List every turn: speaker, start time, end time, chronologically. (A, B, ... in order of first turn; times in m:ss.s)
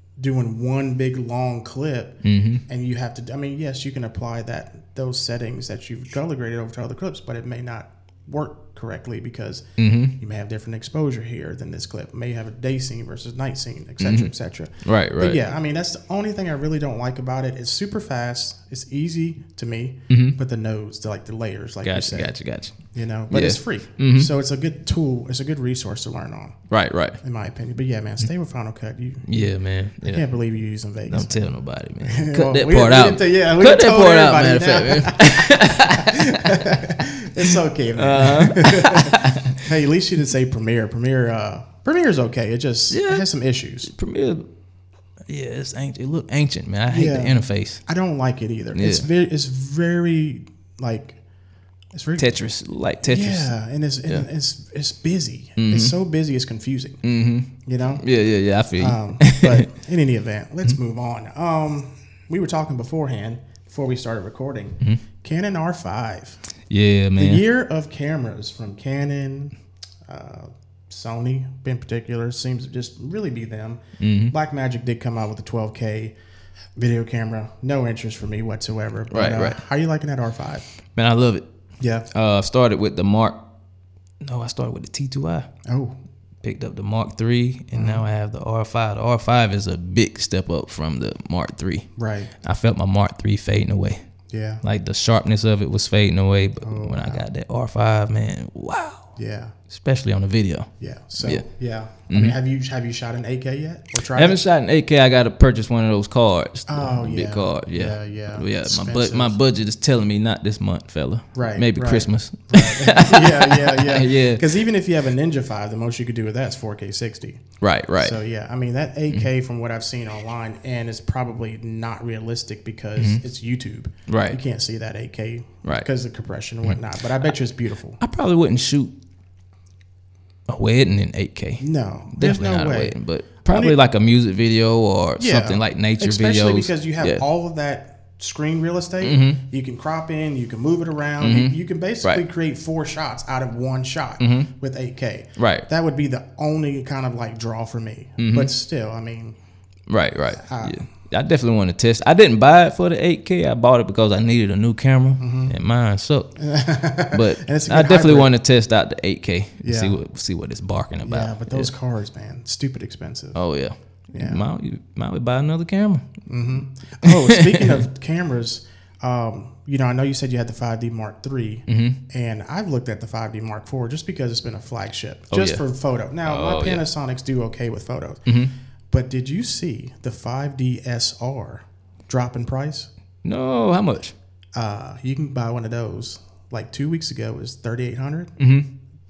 0:00.2-0:09.6 A
0:02.2-0:02.6 B
0:09.8-0:10.2 B
0:10.2-0:26.6 A
0:14.0-0:15.4 B
0:20.1-0:20.4 B
0:21.8-0:24.3 B
0:26.7-0:27.2 B
0:27.2-0:29.3 A
0:29.3-0:30.2 B
0:30.0-0:31.4 A
0:31.1-0:36.6 B
0:32.0-0:43.9 A
0:37.4-0:39.6 B
0:42.9-0:43.2 B
0:43.8-0:44.5 B
0:45.3-0:47.8 B
0:46.9-0:51.2 A
0:48.7-0:49.1 B
0:51.9-0:52.4 A
0:52.2-0:53.5 B
0:53.0-0:57.0 A
0:55.6-0:56.0 B
0:57.0-0:59.7 B
0:57.7-0:58.0 A
0:58.8-1:06.4 A
1:06.7-1:07.4 B
1:07.2-1:09.6 A
1:10.1-1:16.1 A
1:14.0-1:14.3 B
1:16.8-1:20.7 A
1:19.1-1:19.6 B
1:21.0-1:21.5 B
1:21.8-1:22.1 A
1:22.1-1:23.4 B
1:24.2-1:25.5 B
1:25.7-1:26.0 A
1:26.4-1:31.9 B
1:27.7-1:28.0 A
1:32.0-1:32.3 A
1:32.4-1:34.0 B
1:34.3-1:34.6 A
1:34.6-1:39.1 B
1:36.6-1:37.2 A
1:39.2-1:39.6 A
1:39.7-1:41.4 B
1:40.8-1:44.4 A
1:42.1-1:42.4 B
1:44.1-1:54.5 B
1:46.7-1:49.4 A
1:51.4-1:57.4 A
1:57.6-1:58.2 B
1:58.0-2:08.0 A
2:04.1-2:04.4 B
2:06.6-2:07.3 B
2:08.0-2:08.9 B
2:10.5-2:17.2 B
2:11.6-2:13.8 A
2:15.2-2:29.4 A
2:19.0-2:19.4 B
2:21.2-2:22.2 B
2:24.2-2:24.5 B
2:25.4-2:25.7 B
2:28.2-2:28.5 B
2:29.9-2:36.4 B
2:30.3-2:30.9 A
2:35.2-2:35.5 A
2:36.4-2:38.3 A
2:37.1-2:41.7 B
2:39.6-2:40.0 A
2:41.0-2:43.4 A
2:43.4-2:46.1 B
2:44.1-2:44.4 A
2:46.3-2:58.2 A
2:47.0-2:47.9 B
2:51.7-2:52.0 B
2:55.3-2:55.6 B
2:56.2-2:56.9 B
2:58.3-2:58.5 B
2:58.9-3:02.9 A
3:03.2-3:04.2 B
3:04.6-3:08.3 A
3:08.4-3:08.7 B